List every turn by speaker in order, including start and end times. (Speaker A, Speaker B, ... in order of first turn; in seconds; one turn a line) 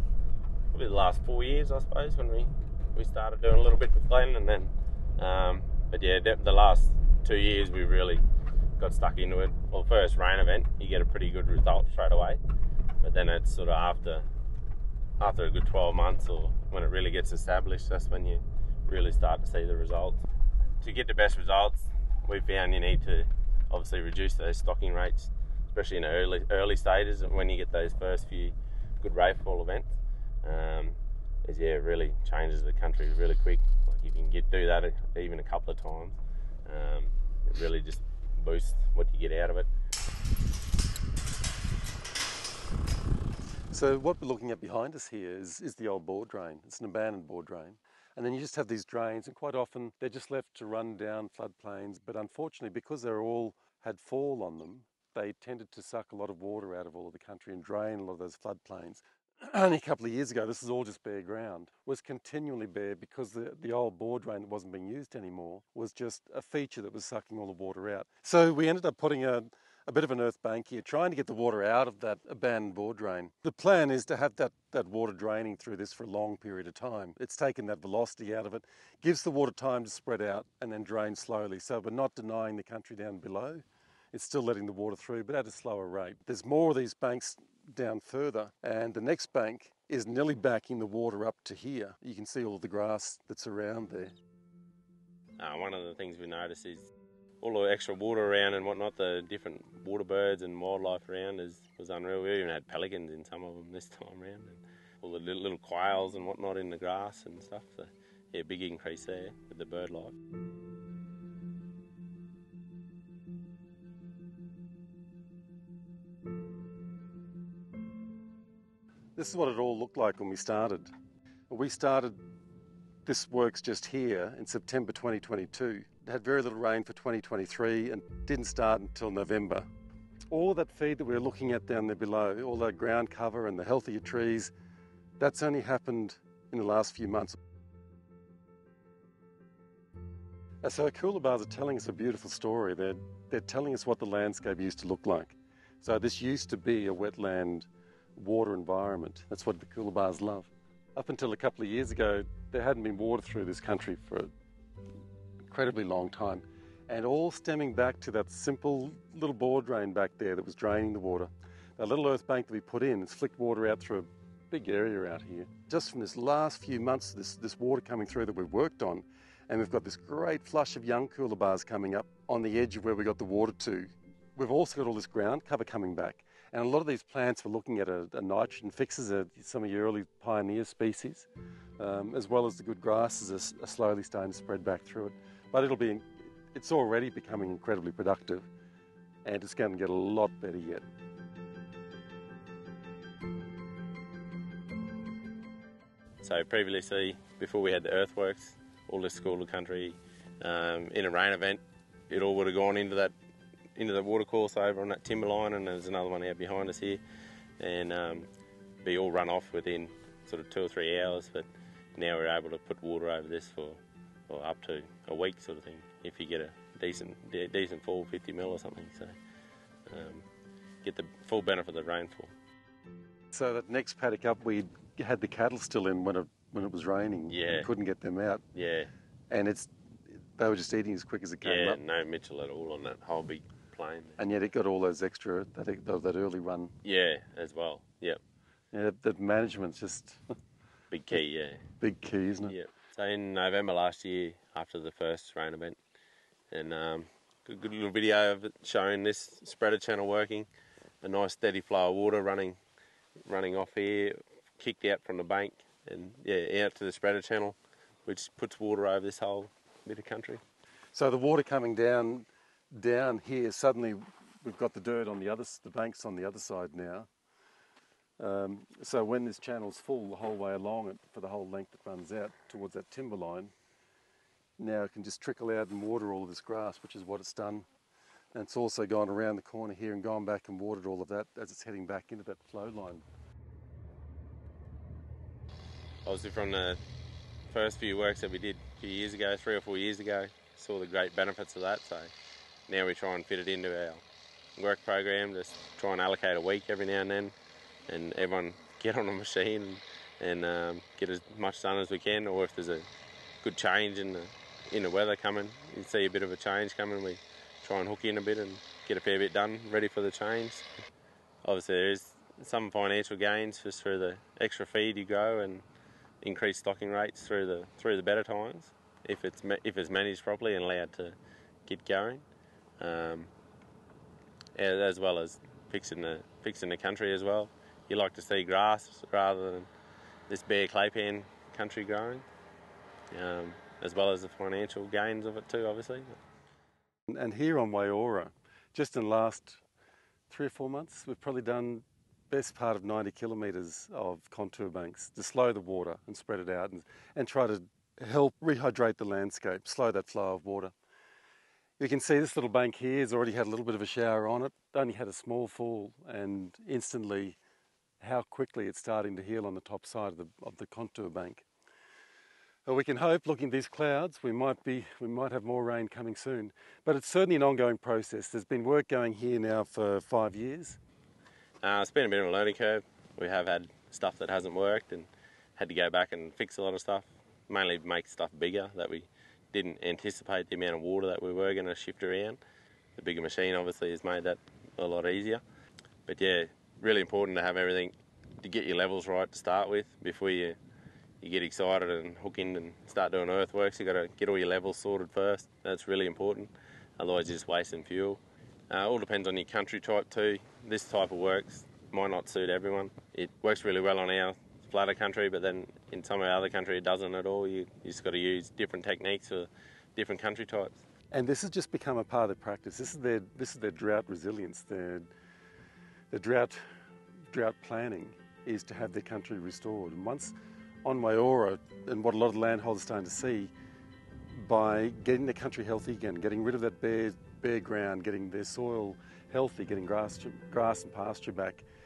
Speaker A: 0.7-8.2
Speaker A: 8.8-12.4
Speaker A: 13.0-14.2
Speaker A: 15.2-20.3
Speaker A: 20.8-39.7
Speaker B: 43.7-94.1
Speaker A: 95.4-96.9
Speaker A: 97.4-110.2
Speaker B: 119.2-120.9
Speaker B: 121.5-122.2
Speaker B: 123.1-129.7
Speaker B: 130.3-134.5
Speaker B: 135.2-137.4
Speaker B: 140.6-154.3
Speaker B: 155.5-181.3
Speaker B: 181.8-188.5
Speaker B: 189.2-190.8
Speaker A: 196.2-203.1
Speaker A: 203.8-207.0
Speaker A: 207.6-208.3
Speaker A: 208.8-219.1
Speaker A: 219.9-220.2
Speaker A: 220.8-222.3
Speaker B: 223.3-228.4
Speaker A: 227.3-227.7
Speaker A: 228.5-228.9
Speaker B: 229.3-229.7
Speaker B: 230.4-231.8
Speaker A: 231.4-234.2
Speaker B: 234.2-236.7
Speaker A: 236.8-238.2
Speaker B: 238.7-240.2
Speaker A: 240.9-241.7
Speaker B: 241.8-242.6
Speaker A: 242.5-245.8
Speaker A: 246.5-250.5
Speaker A: 251.0-252.6
Speaker A: 253.2-260.4
Speaker B: 260.9-267.1
Speaker B: 268.2-273.5
Speaker B: 274.6-277.7
Speaker B: 278.3-283.1
Speaker A: 286.1-286.8
Speaker A: 287.5-292.1
Speaker A: 292.7-294.0
Speaker A: 294.6-297.3
Speaker A: 297.9-302.9
Speaker A: 303.4-310.7
Speaker A: 311.4-315.6
Speaker A: 316.2-322.2
Speaker A: 322.8-323.3
Speaker A: 324.6-329.7
Speaker A: 330.3-332.3
Speaker A: 333.1-336.2
Speaker B: 337.1-339.6
Speaker B: 340.3-350.7
Speaker B: 351.8-357.4
Speaker B: 358.0-361.4
Speaker B: 362.7-370.8
Speaker A: 371.6-382.4
Speaker A: 383.0-385.4
Speaker A: 386.1-390.6
Speaker A: 391.2-410.8
Speaker B: 411.1-415.1
Speaker B: 416.1-416.6
Speaker B: 417.3-423.5
Speaker B: 424.3-431.6